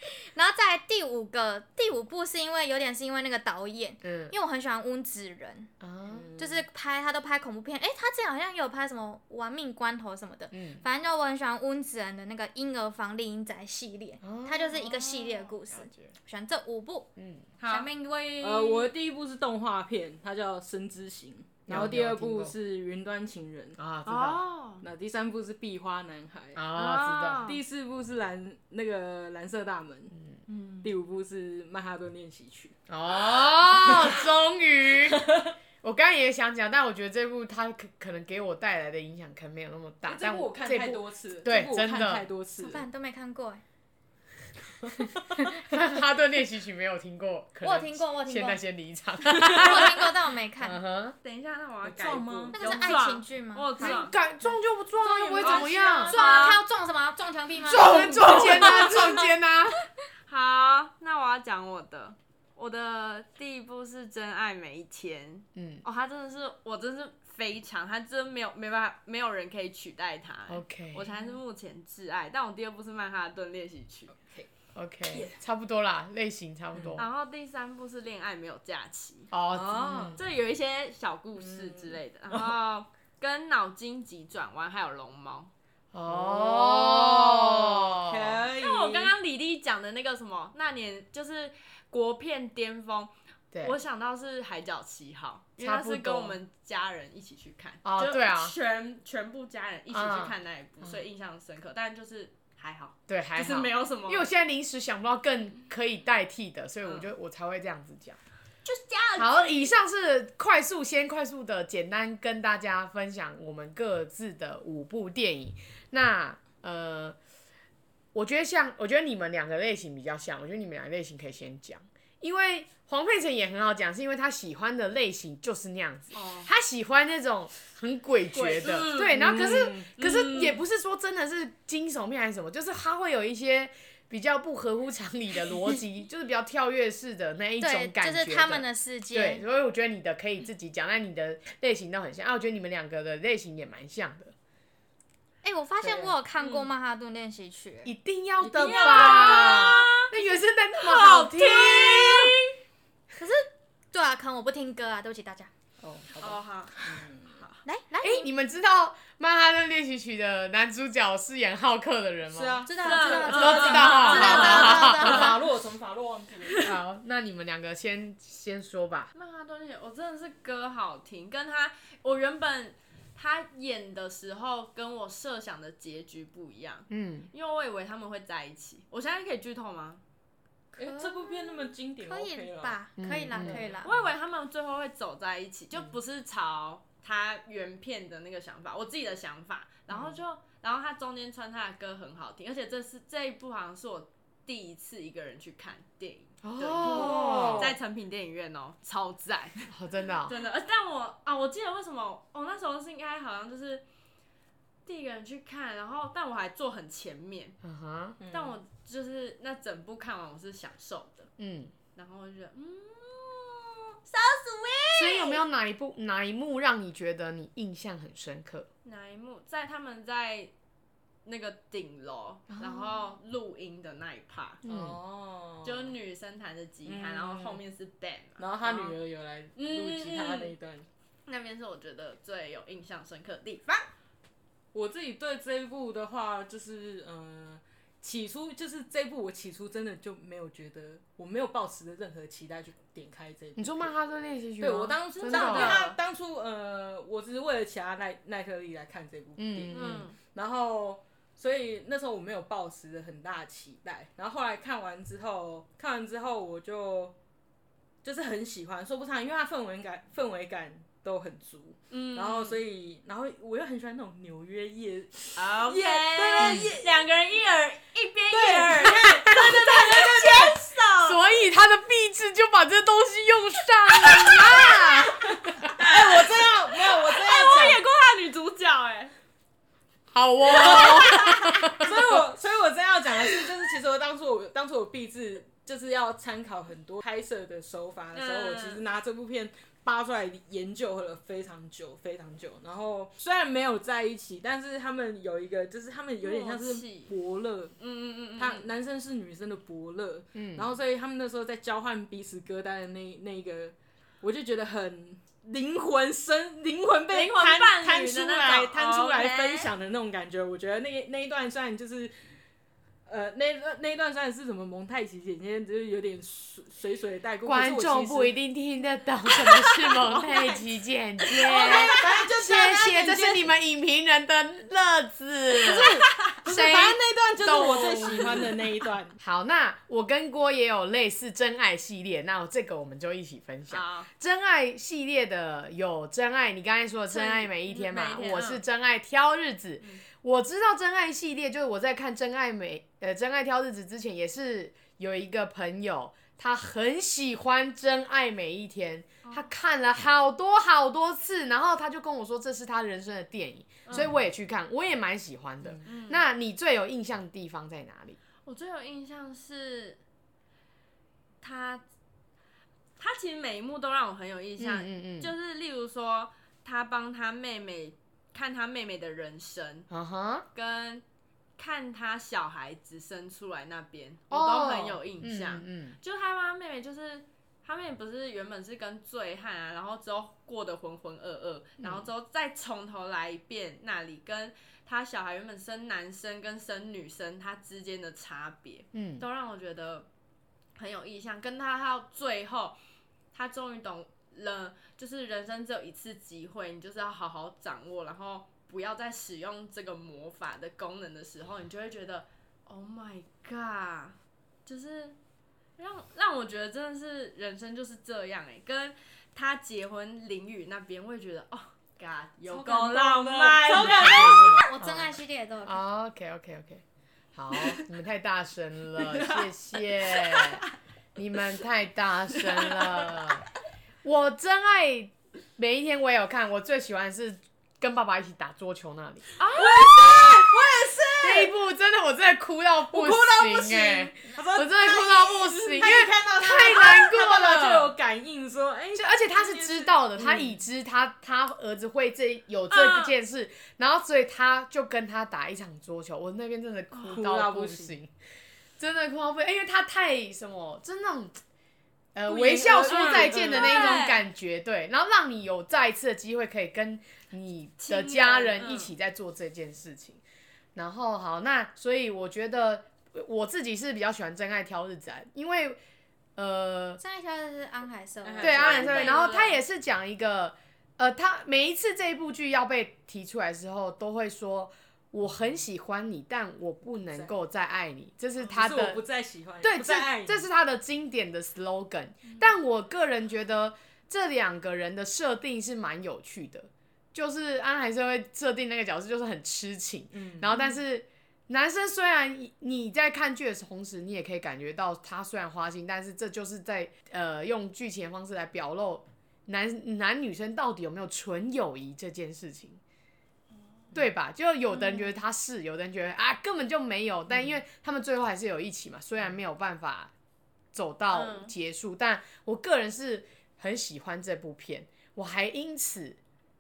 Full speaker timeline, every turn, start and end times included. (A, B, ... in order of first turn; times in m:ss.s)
0:00.3-0:05.7 A
0:04.0-0:04.3 B
0:05.8-0:06.3 B
0:06.1-0:06.6 C
0:06.4-0:17.1 A
0:10.5-0:10.8 B
0:14.2-0:16.1 B
0:17.2-0:17.4 B
0:17.6-0:17.9 D
0:17.7-0:18.9 A
0:18.4-0:23.8 C
0:21.7-0:22.5 B
0:23.8-0:24.4 B
0:24.1-0:24.8 D
0:24.8-0:26.6 C
0:26.6-0:27.4 B
0:26.7-0:27.6 D
0:27.5-0:30.1 C
0:30.5-0:30.9 D
0:30.8-0:32.8 C
0:32.9-0:35.2 B
0:33.7-0:34.2 C
0:35.1-0:35.5 C
0:35.8-0:42.2 B
0:40.1-0:42.8 C
0:42.6-0:43.6 A
0:45.6-0:50.1 B
0:47.6-0:48.6 A
0:49.4-0:50.8 A
0:50.6-0:51.2 B
0:51.2-0:54.1 D
0:51.8-0:52.9 C
0:52.5-0:54.0 A
0:53.8-0:56.2 B
0:55.0-0:56.6 D
0:55.4-0:58.8 A
0:57.7-0:59.8 B
0:57.9-0:58.6 C
0:58.5-0:58.9 D
1:00.3-1:14.1 D
1:05.6-1:05.8 B
1:10.5-1:11.1 B
1:14.1-1:14.5 C
1:14.7-1:17.1 B
1:15.1-1:15.4 C
1:16.8-1:17.0 C
1:17.0-1:19.3 D
1:19.3-1:20.2 B
1:19.5-1:20.2 C
1:20.2-1:25.5 D
1:21.4-1:22.6 C
1:25.9-1:28.4 B
1:26.1-1:29.1 C
1:28.6-1:44.3 D
1:35.6-1:36.4 B
1:37.8-1:38.6 B
1:39.9-1:41.0 B
1:43.1-1:48.2 B
1:46.8-1:47.1 D
1:48.6-1:49.6 D
1:49.2-1:57.2 B
1:58.1-2:24.3 B
2:06.1-2:06.5 D
2:08.3-2:10.6 D
2:09.2-2:09.9 C
2:17.6-2:19.4 A
2:25.4-2:27.9 A
2:25.8-2:26.1 B
2:26.4-2:26.7 D
2:27.8-2:32.4 B
2:28.4-2:30.1 D
2:30.8-2:32.5 D
2:33.2-2:35.5 A
2:35.8-2:36.4 B
2:36.2-2:36.8 D
2:36.8-2:37.4 C
2:37.6-2:38.3 A
2:38.0-2:42.6 B
2:42.3-2:46.7 C
2:42.7-2:45.4 A
2:42.8-2:45.2 D
2:43.2-2:45.4 B
2:46.6-2:49.1 B
2:49.2-3:00.0 D
2:56.9-2:57.3 B
3:00.7-3:02.8 C
3:00.8-3:03.9 A
3:03.0-3:03.6 B
3:03.3-3:04.1 C
3:03.8-3:19.7 D
3:09.9-3:10.2 B
3:16.4-3:17.8 B
3:16.8-3:17.7 C
3:19.7-3:20.4 B
3:20.2-3:23.8 D
3:24.9-3:27.6 D
3:27.6-3:28.2 B
3:28.2-3:28.6 C
3:28.2-3:31.3 D
3:31.4-3:31.7 B
3:32.0-3:35.4 D
3:34.9-3:38.7 B
3:38.8-3:40.5 D
3:41.2-3:44.6 D
3:42.5-3:42.9 B
3:44.7-3:45.0 B
3:44.7-3:45.9 C
3:45.6-3:49.0 D
3:46.9-3:47.6 C
3:48.4-3:50.9 C
3:49.6-3:50.5 D
3:51.3-3:53.9 D
3:54.7-4:03.9 C
4:03.6-4:05.8 B
4:04.6-4:17.2 C
4:05.2-4:06.0 D
4:09.4-4:10.0 B
4:09.7-4:10.2 D
4:18.0-4:26.9 C
4:21.9-4:22.6 D
4:25.4-4:31.2 D
4:26.4-4:26.7 B
4:28.3-4:30.6 C
4:29.3-4:30.0 B
4:31.0-4:35.3 B
4:34.1-4:34.9 D
4:35.5-4:37.8 C
4:35.8-4:39.1 D
4:40.1-4:42.0 B
4:40.4-4:57.8 C
4:40.6-4:41.5 D
4:48.1-4:48.8 D
4:56.2-4:57.1 D
4:57.8-4:58.7 D
4:58.4-5:12.1 C
5:00.4-5:00.8 B
5:07.1-5:09.7 D
5:13.1-5:18.3 C
5:17.4-5:28.4 B
5:19.6-5:20.7 C
5:21.3-5:23.5 C
5:21.6-5:21.9 D
5:25.6-5:29.2 C
5:29.2-5:58.2 B
5:33.7-5:34.1 D
5:37.1-5:38.6 D
5:49.2-5:49.5 D
5:53.9-5:54.1 D
5:53.9-5:54.2 C
5:55.8-5:56.2 D
5:58.4-6:00.0 D
6:01.4-6:01.8 D
6:03.0-6:09.9 D
6:04.6-6:05.3 B
6:09.9-6:10.5 B
6:10.5-6:11.0 D
6:11.6-6:30.1 D
6:14.3-6:16.0 B
6:21.8-6:22.1 B
6:28.9-6:29.2 B
6:30.8-6:32.8 D
6:33.3-6:45.2 D
6:45.8-6:54.6 D
6:52.5-6:54.6 C
6:53.7-7:00.6 B
6:54.6-6:55.8 A
6:59.0-7:00.6 C
7:01.2-7:03.4 B
7:02.4-7:03.2 C
7:04.0-7:09.3 B
7:09.4-7:10.9 D
7:09.5-7:11.5 C
7:11.2-7:17.9 B
7:12.9-7:20.6 C
7:19.0-7:28.1 B
7:22.7-7:23.1 D
7:27.0-7:28.0 C
7:28.8-7:31.4 B
7:32.2-7:40.2 B
7:32.3-7:34.0 C
7:32.8-7:34.2 D
7:37.8-7:38.9 D
7:40.8-7:45.8 B
7:46.4-7:47.0 B
7:47.0-7:48.9 A
7:48.2-7:49.3 C
7:48.4-7:59.0 B
7:48.8-7:49.6 D
7:58.4-8:00.4 C
7:59.6-8:22.8 B
8:10.1-8:10.5 C
8:23.9-8:30.1 B
8:24.7-8:25.1 D
8:30.7-8:36.2 B
8:31.1-8:31.5 D